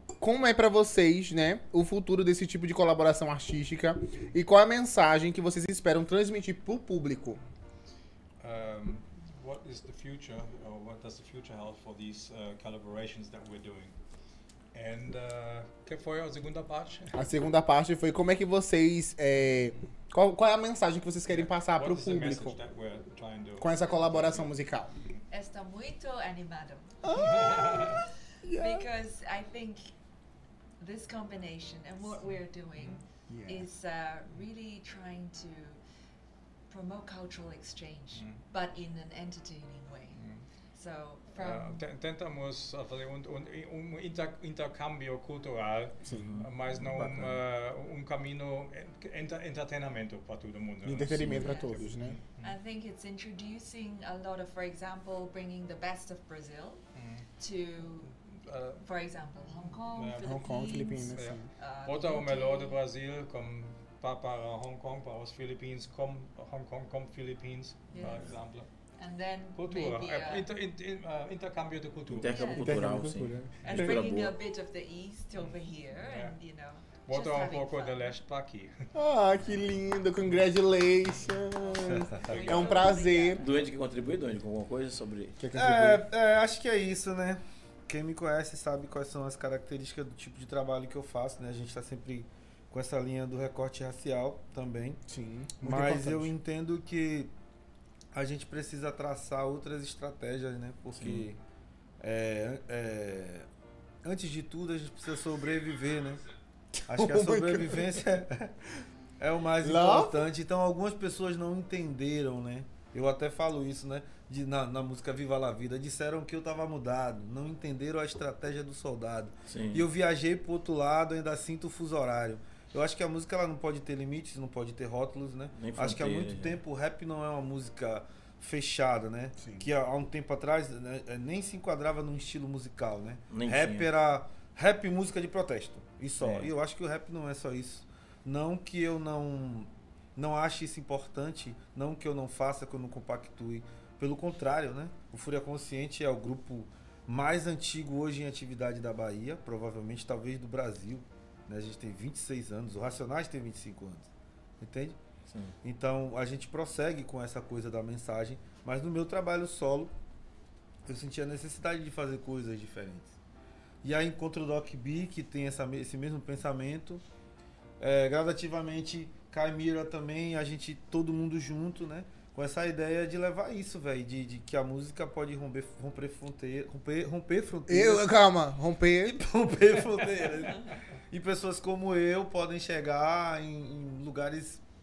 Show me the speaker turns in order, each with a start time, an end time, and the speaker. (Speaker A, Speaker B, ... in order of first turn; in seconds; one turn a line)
Speaker A: 0.2-7.4
Speaker B: 8.4-13.9
Speaker B: 14.7-17.1
Speaker A: 17.1-22.6
Speaker B: 21.3-24.5
Speaker A: 23.6-24.9
Speaker C: 25.3-28.0
Speaker A: 27.0-27.9
Speaker B: 27.1-28.0
Speaker A: 28.4-28.9
Speaker C: 28.5-29.9
Speaker C: 30.8-35.8
Speaker B: 32.8-33.0
Speaker A: 33.3-33.7
Speaker C: 36.7-40.2
Speaker B: 38.2-38.4
Speaker B: 40.1-40.5
Speaker C: 40.7-41.8
Speaker B: 41.4-52.6
Speaker A: 46.0-46.4
Speaker D: 46.1-46.5
Speaker A: 47.0-47.2
Speaker A: 50.8-52.2
Speaker C: 51.2-56.8
Speaker B: 57.0-57.3
Speaker C: 57.4-58.1
Speaker B: 58.1-58.8
Speaker C: 58.8-62.8
Speaker B: 59.6-60.5
Speaker A: 60.2-61.5
Speaker B: 61.1-68.7
Speaker C: 67.9-68.4
Speaker C: 69.0-70.5
Speaker B: 69.6-72.6
Speaker D: 72.1-74.3
Speaker C: 72.3-72.8
Speaker A: 72.6-74.1
Speaker C: 73.6-78.2
Speaker B: 75.4-76.4
Speaker B: 77.1-78.7
Speaker A: 79.0-83.4
Speaker C: 82.1-83.5
Speaker B: 82.3-82.9
Speaker D: 83.4-85.4
Speaker A: 85.4-86.0
Speaker E: 85.5-95.0
Speaker A: 95.1-96.3
Speaker E: 95.6-97.3
Speaker E: 98.1-101.4
Speaker D: 101.0-101.3
Speaker E: 102.0-103.5
Speaker E: 104.0-106.2
Speaker A: 106.7-108.0
Speaker E: 106.9-108.5
Speaker E: 109.2-154.1
Speaker A: 109.6-110.2
Speaker D: 119.5-119.9
Speaker D: 125.6-126.6
Speaker A: 129.4-129.7
Speaker D: 133.3-133.9
Speaker E: 154.6-154.9
Speaker D: 155.3-155.6
Speaker E: 155.6-159.9
Speaker E: 160.8-163.1
Speaker E: 163.8-167.0
Speaker E: 167.8-178.2
Speaker A: 177.7-179.2
Speaker E: 179.0-184.6